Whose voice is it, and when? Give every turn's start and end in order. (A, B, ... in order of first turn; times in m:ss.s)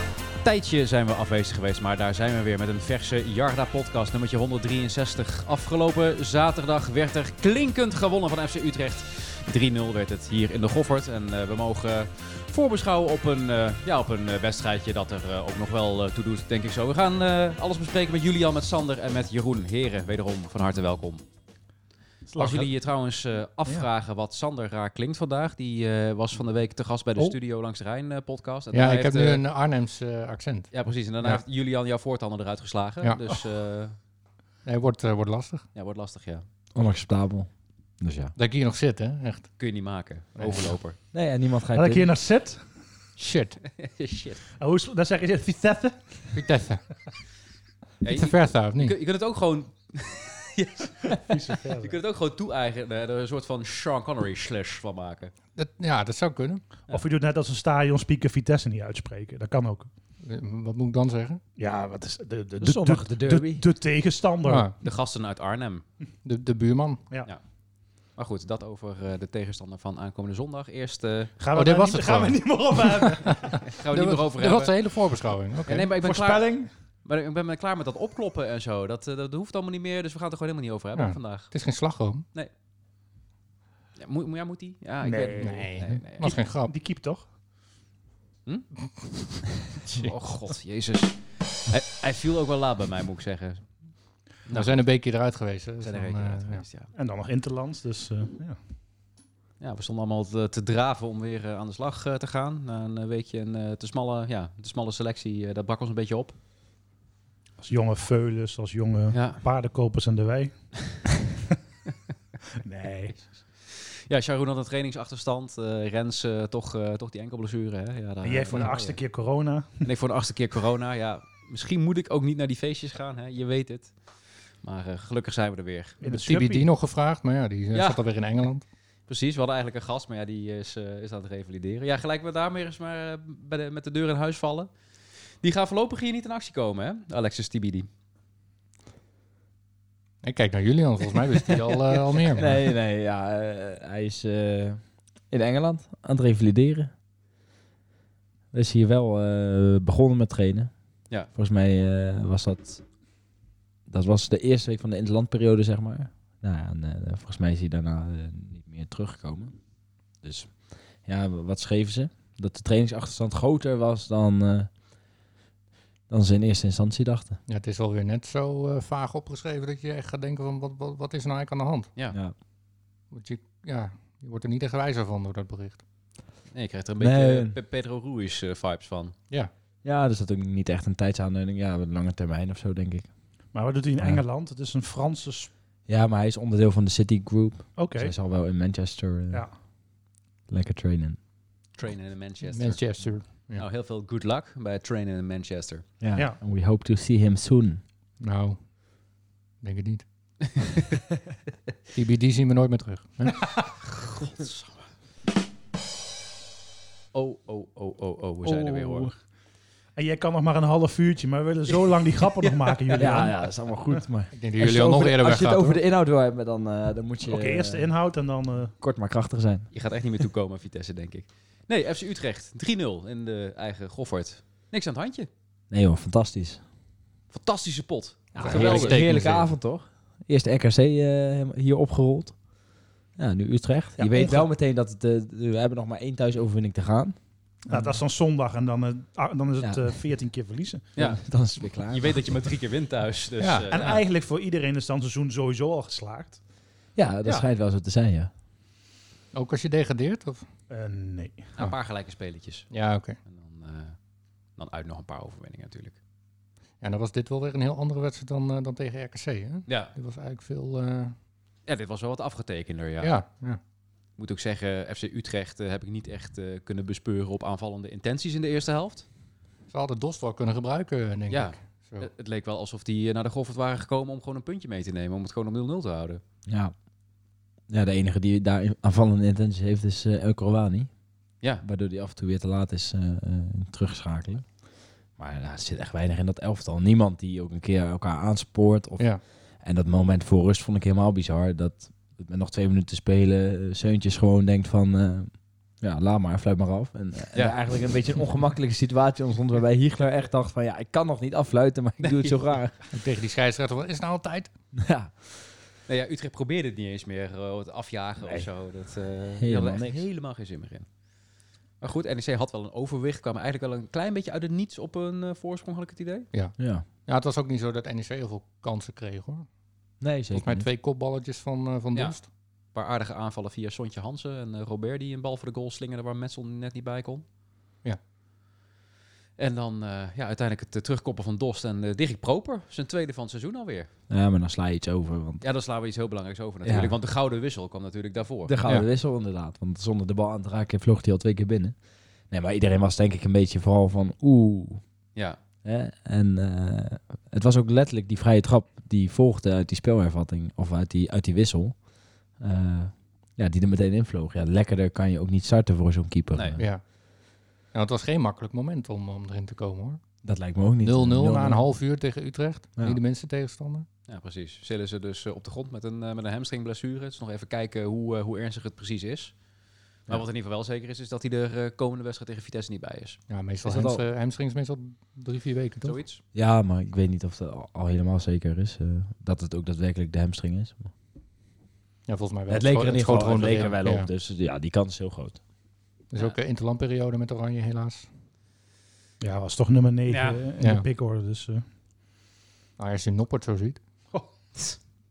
0:00.4-0:21.2 A
0:22.3-0:22.7 B
0:22.4-0:29.4 A
0:28.7-0:31.4 C
0:30.7-0:34.0 A
0:34.6-0:35.6 C
0:35.7-0:36.4 A
0:36.7-0:37.5 D
0:38.0-0:38.3 D
0:38.3-0:39.5 C
0:39.6-0:41.0 A
0:40.4-0:40.7 C
0:41.1-0:42.1 D
0:41.7-0:42.6 B
0:43.2-0:43.6 C
0:43.6-0:44.4 A
0:44.6-0:46.3 B
0:46.3-0:46.8 C
0:48.0-0:55.3 A
0:48.0-0:49.0 C
0:51.1-0:51.9 B
0:55.6-0:56.6 C
0:56.9-0:59.9 B
1:00.2-1:01.4 C
1:01.6-1:04.7 B
1:02.6-1:03.6 D
1:04.4-1:04.7 C
1:04.8-1:05.8 A
1:06.2-1:07.0 C
1:08.2-1:11.3 A
1:11.4-1:13.6 B
1:11.5-1:15.9 C
1:13.6-1:14.8 A
1:15.7-1:16.5 A
1:16.0-1:16.7 B
1:17.0-1:21.5 A
1:20.9-1:22.2 C
1:24.0-1:26.3 A
1:25.0-1:25.7 B
1:25.4-1:26.7 C
1:26.2-1:27.2 B
1:29.9-1:33.6 A
1:34.5-1:34.8 A
1:34.5-1:36.6 C
1:35.8-1:36.9 A
1:36.9-1:38.6 B
1:39.6-1:46.4 A
1:47.6-1:50.5 B
1:49.1-1:49.4 A
1:52.6-1:53.2 B
1:53.7-1:59.0 A
1:58.2-1:59.8 B
1:59.8-2:03.9 A
2:04.6-2:06.0 A
2:06.0-2:06.7 B
2:06.0-2:08.6 C
2:07.7-2:08.0 A
2:09.1-2:14.7 A
2:15.4-2:17.9 A
2:20.2-2:22.5 C
2:21.9-2:22.4 A
2:22.3-2:26.9 D
2:28.5-2:30.7 D
2:31.3-2:32.8 D
2:33.9-2:39.6 D
2:40.2-2:44.7 D
2:46.1-2:47.4 D
2:47.5-2:51.9 C
2:53.1-2:55.8 C
2:56.5-2:59.1 A
2:57.0-2:57.6 D
2:59.8-3:03.1 D
3:03.5-3:05.5 B
3:05.9-3:09.5 D
3:07.8-3:08.1 B
3:10.5-3:11.2 D
3:11.8-3:15.8 A
3:12.5-3:13.6 C
3:16.0-3:17.8 D
3:18.2-3:18.6 C
3:19.6-3:20.0 C
3:20.6-3:20.8 A
3:21.9-3:23.5 C
3:23.8-3:24.8 A
3:27.1-3:29.1 A
3:28.4-3:29.1 B
3:30.0-3:33.4 B
3:32.4-3:33.1 A
3:32.9-3:37.9 D
3:34.3-3:35.8 C
3:37.2-3:38.7 B
3:38.8-3:39.7 D
3:39.7-3:45.3 A
3:45.7-3:46.6 D
3:47.3-3:49.2 A
3:48.3-3:52.4 D
3:48.4-3:49.5 C
3:53.2-3:57.2 D
3:54.0-3:54.5 B
3:57.7-4:00.8 B
3:59.6-3:59.9 D
4:01.0-4:01.2 A
4:01.0-4:02.2 D
4:01.9-4:04.0 A
4:03.4-4:03.8 C
4:03.7-4:06.4 B
4:07.0-4:08.3 D
4:09.3-4:10.4 C
4:10.7-4:11.5 B
4:11.6-4:12.7 A
4:12.7-4:13.2 C
4:13.2-4:14.0 A
4:14.6-4:16.0 A
4:16.8-4:21.1 C
4:19.7-4:19.9 A
4:21.7-4:23.2 A
4:23.0-4:23.6 C
4:24.2-4:29.0 A
4:29.7-4:32.1 C
4:31.3-4:36.2 A
4:36.5-4:36.7 D
4:37.7-4:40.9 D
4:41.6-4:44.5 D
4:45.2-5:02.8 D
4:57.3-4:57.6 A
5:02.0-5:02.5 A
5:02.9-5:04.5 C
5:04.7-5:05.1 D
5:05.9-5:10.9 A
5:08.2-5:08.5 D
5:09.4-5:10.0 D
5:11.8-5:16.3 A
5:16.3-5:19.5 C
5:16.6-5:16.8 D
5:20.0-5:20.7 D
5:20.3-5:22.2 C
5:22.7-5:27.2 A
5:29.4-5:33.9 A
5:34.1-5:35.4 D
5:35.4-5:38.5 A
5:36.6-5:37.0 D
5:38.4-5:41.8 D
5:42.3-5:44.8 D
5:45.6-5:51.8 D
5:52.4-5:56.6 D
5:56.3-5:56.6 A
5:56.6-5:56.8 C
5:57.7-6:00.0 C
6:00.2-6:01.6 D
6:00.8-6:03.9 C
6:04.1-6:09.4 A
6:10.0-6:13.2 A
6:13.3-6:16.0 C
6:13.6-6:14.0 D
6:15.8-6:16.2 A
6:16.3-6:20.9 D
6:22.1-6:24.1 C
6:22.5-6:25.4 D
6:26.1-6:28.1 C
6:29.2-6:31.6 B
6:30.1-6:30.4 A
6:30.6-6:30.8 C
6:32.8-6:33.8 C
6:34.1-6:34.8 A